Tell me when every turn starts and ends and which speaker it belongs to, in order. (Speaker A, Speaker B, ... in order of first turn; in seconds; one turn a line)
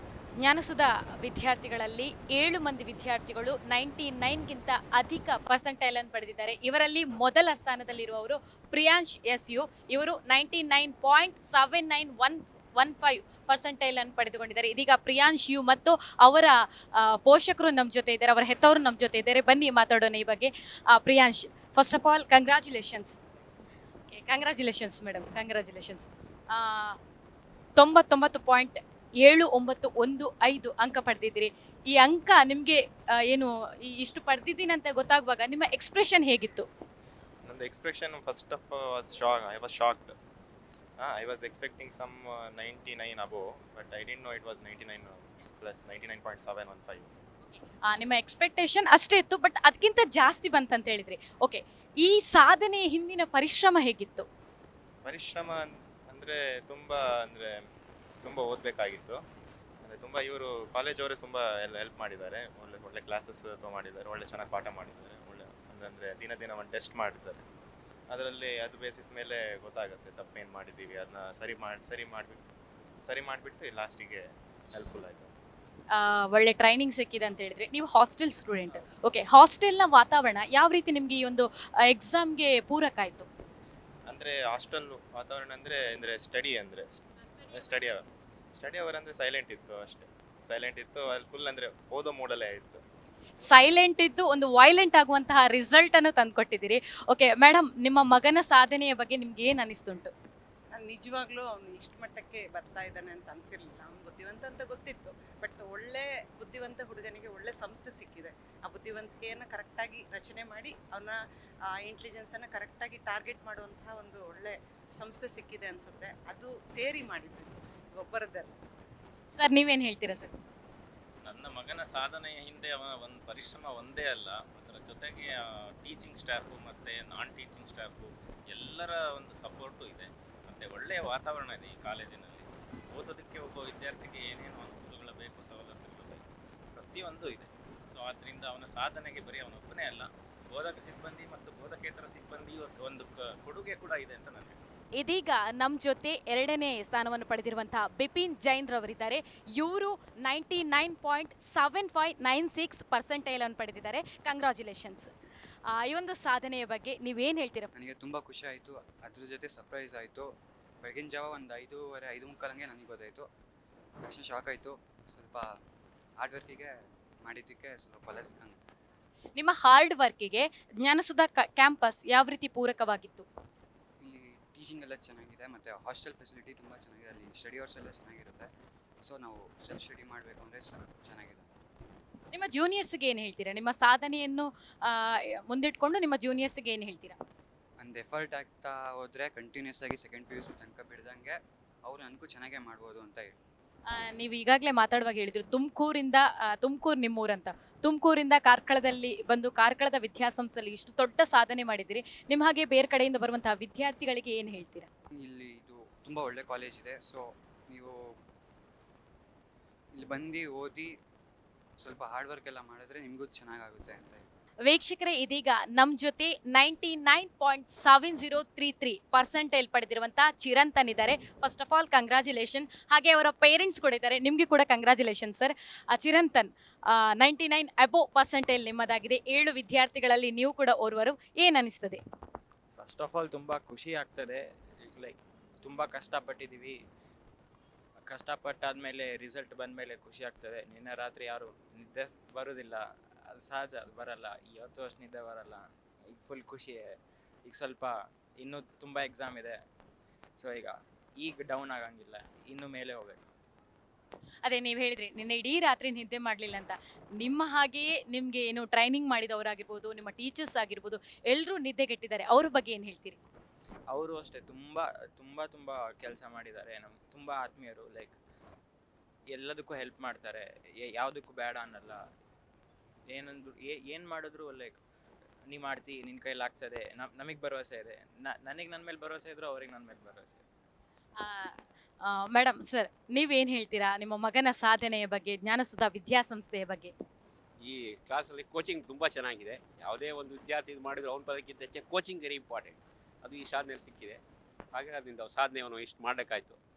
Speaker A: 0.4-23.2
Speaker A: 24.1-27.0
Speaker A: 27.8-36.7
Speaker B: 37.5-40.1
Speaker B: 41.0-47.2
Speaker A: 47.5-54.3
Speaker B: 55.0-57.6
Speaker B: 58.2-59.2
Speaker B: 59.8-67.4
Speaker B: 68.1-72.4
Speaker B: 73.0-75.4
Speaker A: 75.9-83.3
Speaker B: 84.1-92.8
Speaker A: 93.4-100.1
Speaker C: 100.7-111.2
Speaker C: 111.7-118.5
Speaker A: 119.3-120.3
Speaker D: 121.2-136.2
Speaker D: 136.8-144.6
Speaker A: 145.0-155.1
Speaker A: 155.7-157.7
Speaker E: 157.7-163.3
Speaker E: 164.0-165.6
Speaker E: 166.2-168.6
Speaker A: 169.3-173.2
Speaker E: 174.0-181.6
Speaker A: 182.3-187.2
Speaker E: 187.8-193.3
Speaker A: 193.9-204.9
Speaker E: 205.2-208.2
Speaker E: 209.9-211.0
Speaker E: 211.8-214.2
Speaker A: 214.6-232.0
Speaker F: 232.8-236.8
Speaker F: 238.1-249.6
Speaker F: 250.4-253.3
Speaker A: 254.4-263.2
Speaker F: 263.9-268.2
Speaker F: 269.3-272.0
Speaker F: 273.1-274.8
Speaker F: 275.5-280.4
Speaker A: 281.2-286.9
Speaker G: 287.6-294.2
Speaker G: 294.7-296.6